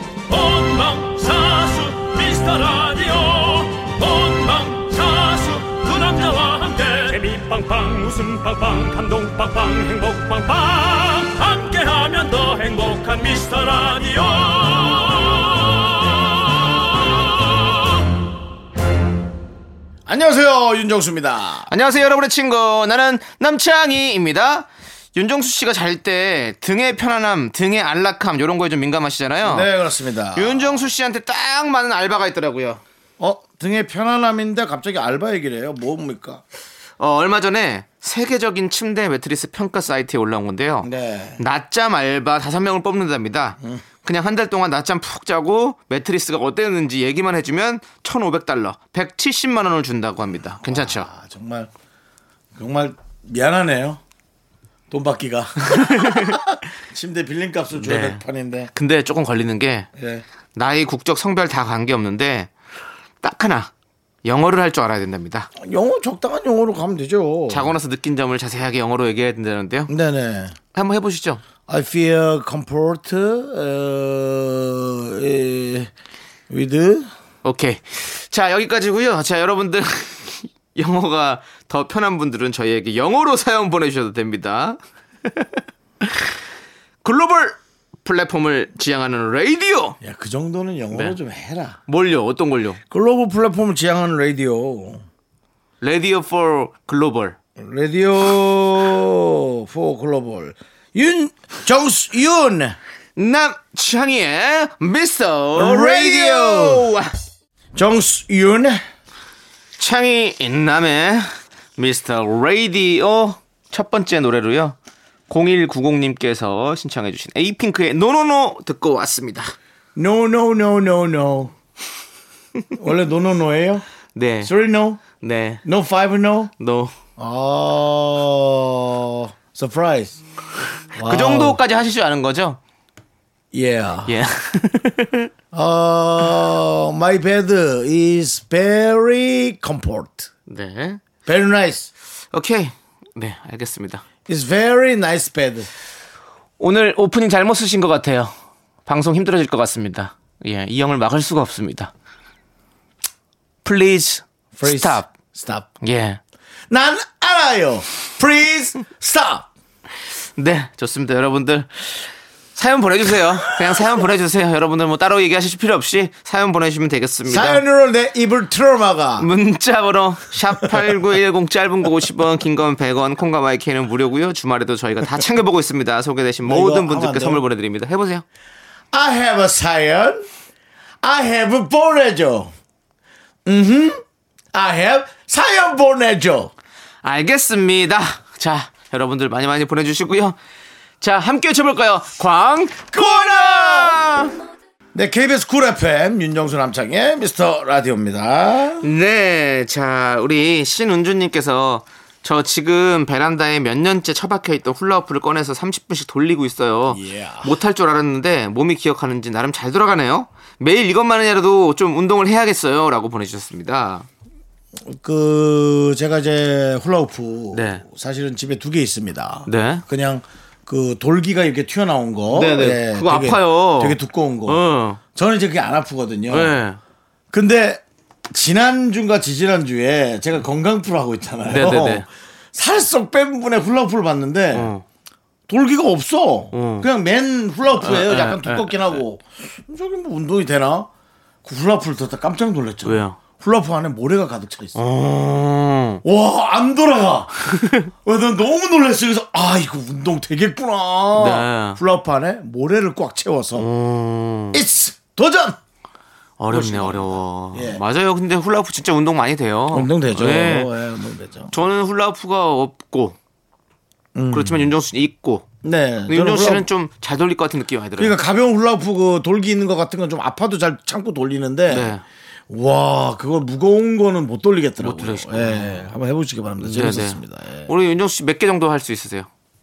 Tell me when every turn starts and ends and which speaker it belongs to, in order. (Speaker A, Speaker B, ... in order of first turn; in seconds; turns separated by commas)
Speaker A: 0.3-17.8, Speaker B: 20.1-21.7, Speaker C: 21.7-29.7, Speaker B: 29.4-30.9, Speaker C: 30.3-32.8, Speaker B: 33.2-36.4, Speaker C: 37.0-51.1, Speaker B: 40.8-41.4, Speaker B: 50.6-51.7, Speaker B: 52.5-54.0, Speaker B: 54.9-58.7, Speaker C: 55.7-56.4, Speaker C: 57.7-58.2, Speaker C: 58.7-59.9, Speaker B: 60.0-60.2, Speaker C: 60.5-62.5, Speaker C: 63.2-63.7, Speaker C: 64.2-65.5, Speaker B: 65.6-67.7, Speaker C: 67.5-69.9, Speaker B: 69.9-70.6, Speaker C: 70.7-71.4, Speaker B: 71.7-75.9, Speaker B: 76.5-77.1, Speaker C: 77.4-86.3, Speaker C: 87.0-90.0, Speaker B: 90.0-91.8, Speaker C: 90.9-91.2, Speaker C: 91.9-92.8, Speaker B: 92.9-95.0, Speaker C: 95.8-97.3, Speaker B: 97.6-102.8, Speaker C: 103.2-107.1, Speaker B: 105.5-106.9, Speaker B: 107.7-108.8, Speaker C: 109.8-114.8, Speaker C: 115.3-119.5, Speaker B: 120.0-121.5, Speaker B: 122.7-123.8, Speaker C: 124.1-124.5, Speaker B: 124.4-125.0, Speaker C: 125.1-125.6, Speaker B: 125.6-126.5, Speaker C: 126.6-126.9, Speaker B: 127.2-130.2, Speaker B: 130.9-131.6, Speaker C: 131.0-132.6, Speaker B: 133.5-134.1, Speaker C: 134.1-135.3, Speaker B: 135.5-140.3, Speaker C: 140.5-141.0, Speaker B: 141.2-141.9, Speaker C: 142.3-144.0, Speaker B: 144.2-145.7, Speaker C: 146.6-148.3, Speaker C: 148.8-151.9, Speaker C: 153.6-155.1, Speaker B: 154.5-155.7, Speaker C: 155.8-156.2, Speaker B: 156.7-159.5, Speaker C: 160.4-167.6, Speaker B: 167.2-169.3, Speaker C: 169.2-178.2, Speaker B: 176.4-177.4, Speaker B: 178.9-180.3, Speaker B: 181.0-182.5, Speaker B: 183.4-184.0, Speaker B: 184.5-186.5, Speaker C: 187.0-190.4, Speaker C: 191.0-194.3, Speaker B: 192.9-194.0, Speaker B: 194.9-198.9, Speaker C: 198.8-214.1, Speaker B: 206.9-207.5, Speaker B: 214.8-224.6, Speaker C: 217.5-217.8, Speaker C: 219.4-219.8, Speaker C: 222.3-225.0, Speaker B: 225.1-226.5, Speaker C: 226.3-226.8, Speaker B: 227.3-234.7, Speaker C: 231.5-232.1, Speaker C: 234.5-234.8, Speaker B: 235.5-240.9, Speaker C: 236.5-236.9, Speaker C: 237.8-239.0, Speaker B: 241.4-244.8, Speaker C: 242.8-243.2, Speaker C: 244.7-246.0, Speaker B: 246.0-253.7, Speaker C: 247.5-247.9, Speaker C: 251.1-251.8, Speaker C: 253.6-254.6, Speaker B: 254.5-255.6, Speaker C: 256.4-260.7, Speaker B: 256.5-257.8, Speaker B: 259.7-261.5, Speaker C: 261.5-263.2, Speaker B: 264.1-264.7, Speaker C: 264.3-265.5, Speaker B: 265.6-266.7, Speaker C: 266.1-268.2, Speaker B: 268.0-271.9, Speaker C: 271.7-272.0, Speaker B: 272.5-277.7, Speaker C: 274.8-275.9, Speaker C: 276.6-279.3